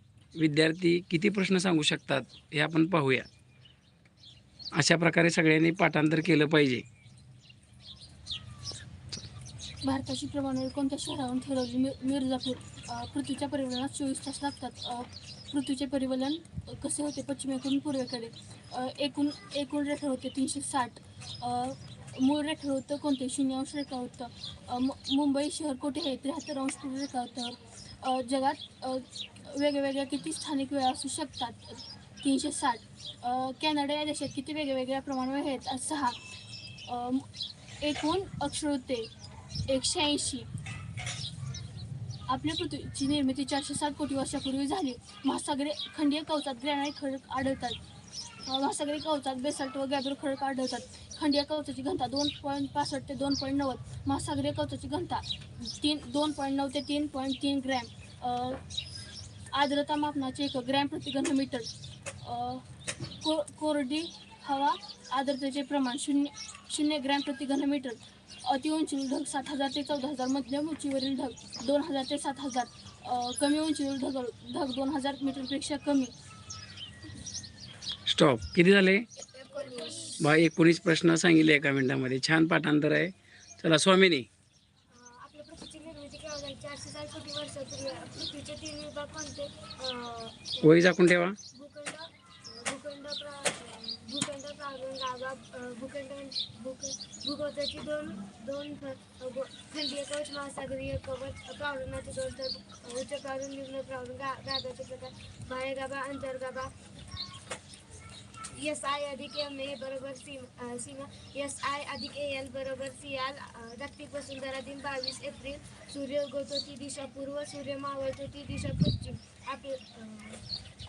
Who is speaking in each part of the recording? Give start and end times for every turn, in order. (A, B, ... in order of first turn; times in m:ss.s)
0:00.4-0:03.3 A
0:04.8-0:06.8 A
0:09.8-0:36.2 B
0:36.8-0:37.3 B
0:37.8-0:39.1 B
0:39.7-0:40.5 B
0:42.3-0:47.8 B
0:48.4-0:58.6 B
0:59.5-1:01.7 B
1:02.2-1:02.6 B
1:03.2-1:16.1 B
1:18.1-1:19.0 A
1:19.3-1:20.1 C
1:20.2-1:24.3 A
1:24.9-1:46.7 C
1:30.6-1:31.4 A
1:48.5-2:00.4 C